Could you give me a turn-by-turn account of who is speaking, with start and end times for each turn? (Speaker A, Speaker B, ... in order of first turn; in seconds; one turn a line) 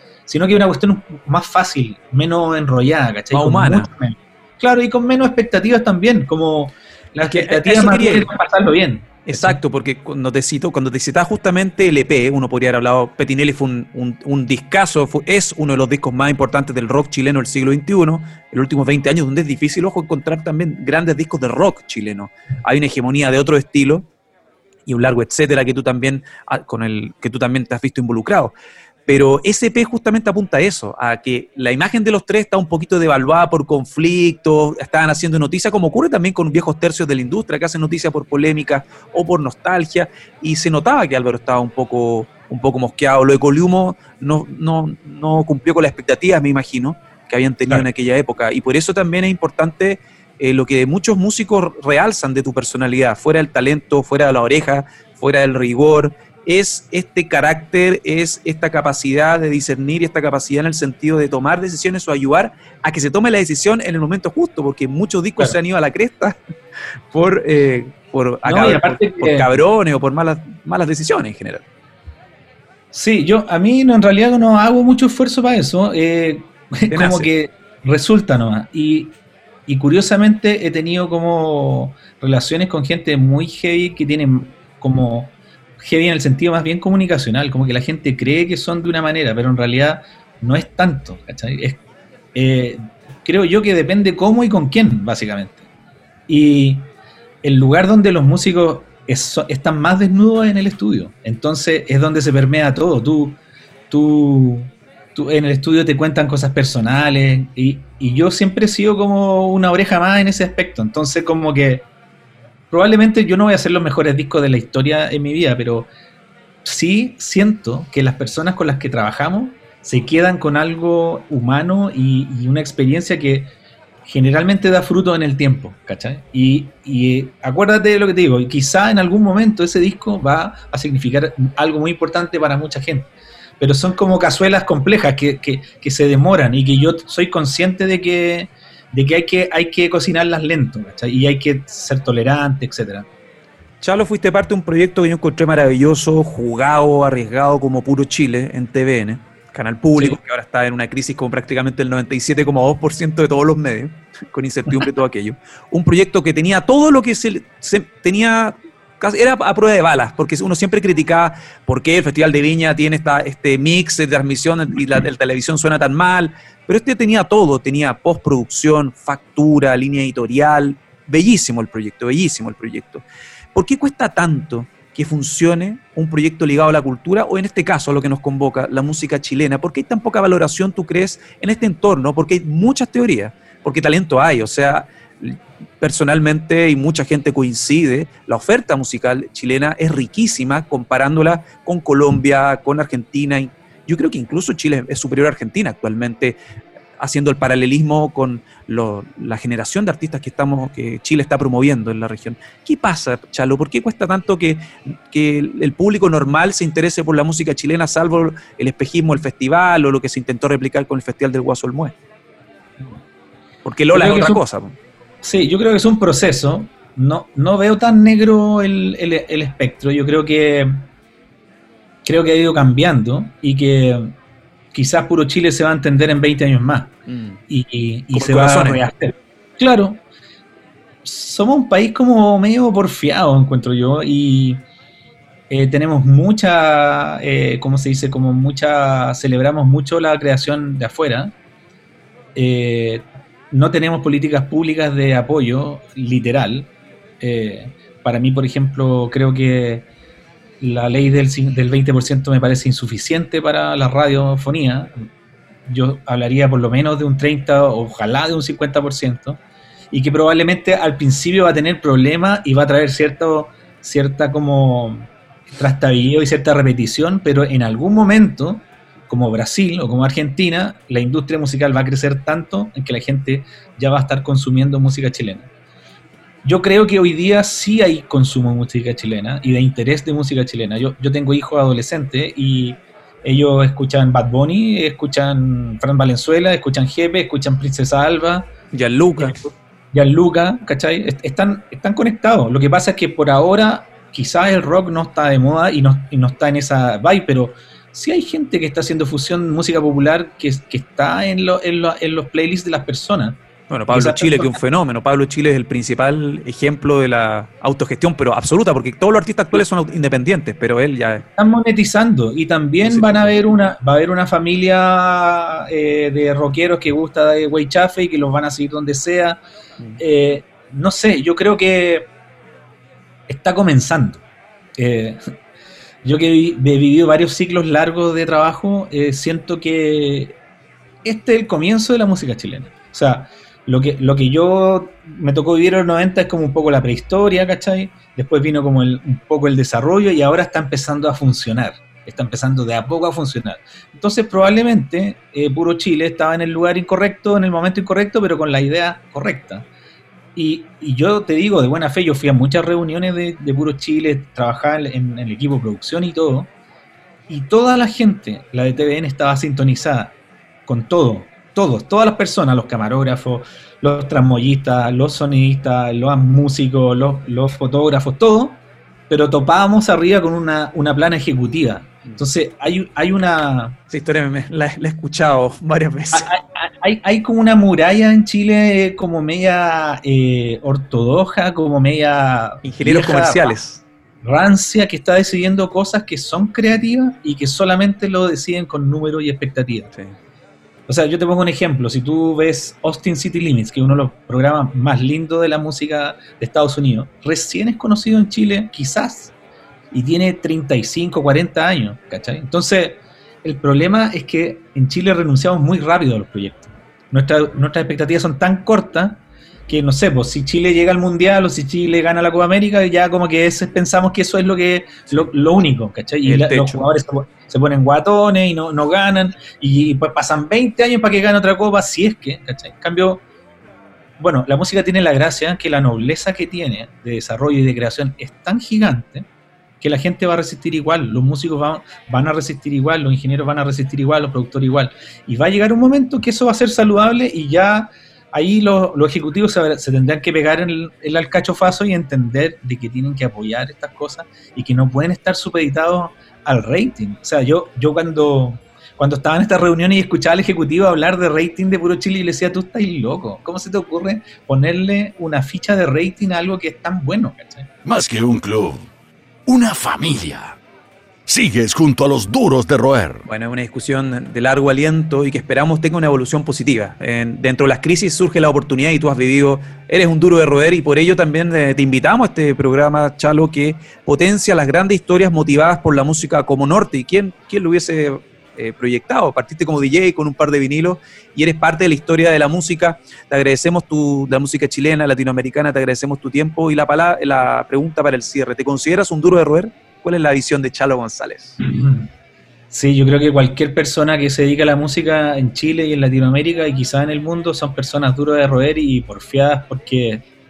Speaker A: 0.3-9.6
Speaker B: 3.3-3.9
Speaker B: 7.2-8.3
Speaker B: 9.3-24.1
Speaker B: 24.9-28.5
Speaker B: 29.1-66.4
Speaker B: 67.1-71.6
Speaker A: 68.5-69.6
Speaker A: 72.9-79.2
Speaker B: 76.9-77.3
Speaker A: 79.7-91.8
Speaker A: 92.3-95.7
Speaker A: 96.3-96.9
Speaker A: 97.4-103.4
Speaker A: 103.9-111.9
Speaker A: 112.7-115.9
Speaker A: 116.7-123.5
Speaker A: 124.0-143.1
Speaker B: 143.8-196.4
Speaker B: 197.0-211.9
Speaker B: 213.7-214.8
Speaker A: 213.9-214.4
Speaker A: 215.2-220.8
Speaker A: 222.1-224.2
Speaker A: 224.7-226.9
Speaker B: 227.1-227.4
Speaker A: 227.5-230.0
Speaker B: 228.1-228.9
Speaker A: 231.0-234.6
Speaker A: 235.5-241.3
Speaker A: 242.3-249.9
Speaker A: 250.6-254.9
Speaker A: 255.7-259.4
Speaker A: 259.9-275.5
Speaker A: 276.4-288.5
Speaker B: 288.7-289.4
Speaker A: 289.2-304.6
Speaker B: 303.7-311.2
Speaker A: 311.4-319.4
Speaker B: 312.9-313.5
Speaker A: 320.0-322.1
Speaker A: 323.3-324.2
Speaker A: 324.8-325.2
Speaker A: 326.0-330.4
Speaker A: 331.0-349.7
Speaker A: 350.4-356.5
Speaker A: 357.3-360.2
Speaker A: 360.7-373.8
Speaker B: 373.9-376.3
Speaker A: 376.1-383.6
Speaker B: 382.6-383.8
Speaker A: 384.2-389.9
Speaker A: 390.9-399.3
Speaker A: 399.9-423.2
Speaker B: 416.2-416.9
Speaker A: 424.2-429.3
Speaker A: 429.8-457.7
Speaker C: 457.9-458.9
Speaker C: 459.5-460.6
Speaker C: 461.3-463.3
Speaker B: 463.3-491.6
Speaker A: 491.6-492.1
Speaker A: 492.7-500.2